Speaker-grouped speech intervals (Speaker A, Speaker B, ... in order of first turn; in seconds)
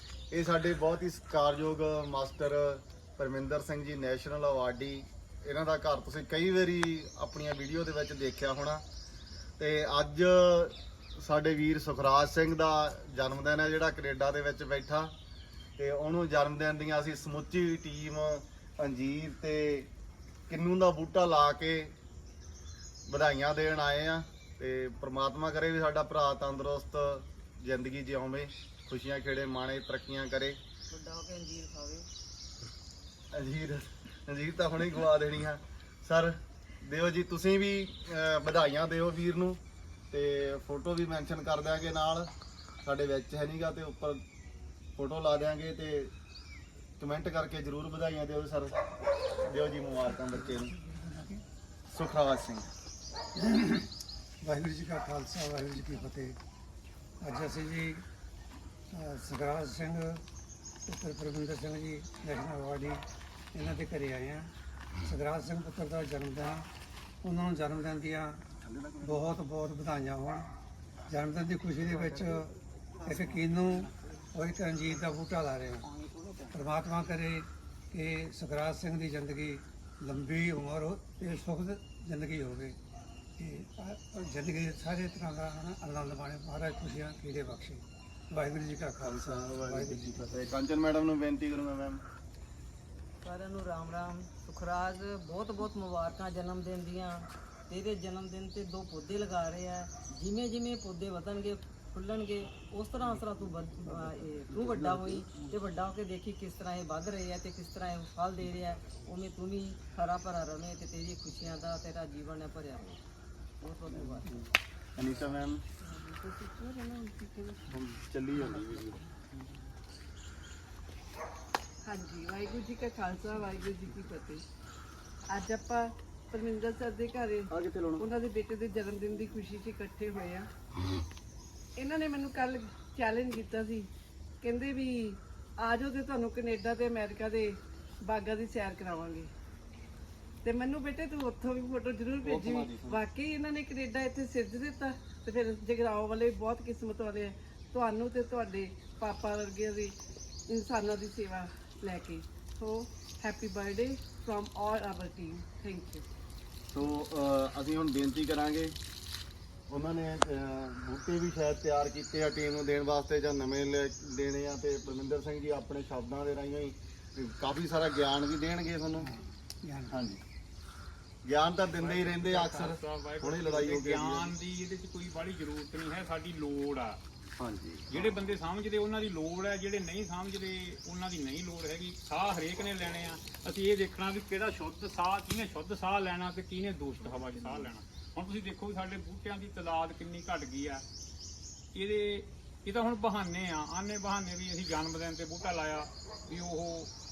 Speaker A: 0.3-8.8, 9.6-15.1, 15.8-19.9, 20.5-21.9, 23.1-30.6, 33.3-39.6, 40.1-42.3, 42.8-44.2, 45.0-46.1, 47.0-48.8, 49.4-50.7, 51.9-52.7, 68.6-69.2, 89.0-92.0, 104.5-105.3, 113.9-115.6, 117.7-119.0, 127.5-128.1, 142.2-143.0, 156.7-158.8, 159.7-169.1, 169.9-170.2, 171.2-174.3, 177.4-178.2, 187.1-187.6
Speaker B: 30.9-32.1, 93.2-113.0, 113.6-114.3
Speaker C: 50.2-51.4, 53.4-56.4, 57.2-58.0, 58.9-60.2, 60.9-64.5, 65.0-66.7, 67.2-68.4, 69.0-70.5, 71.1-72.5, 73.0-75.9, 76.5-82.8, 83.4-90.2, 169.0-170.0
Speaker D: 115.8-117.7, 121.8-124.4, 125.3-130.5, 131.8-133.9, 134.4-139.3, 140.4-149.9, 150.5-156.0
Speaker E: 171.7-177.0, 177.9-190.8, 191.7-196.9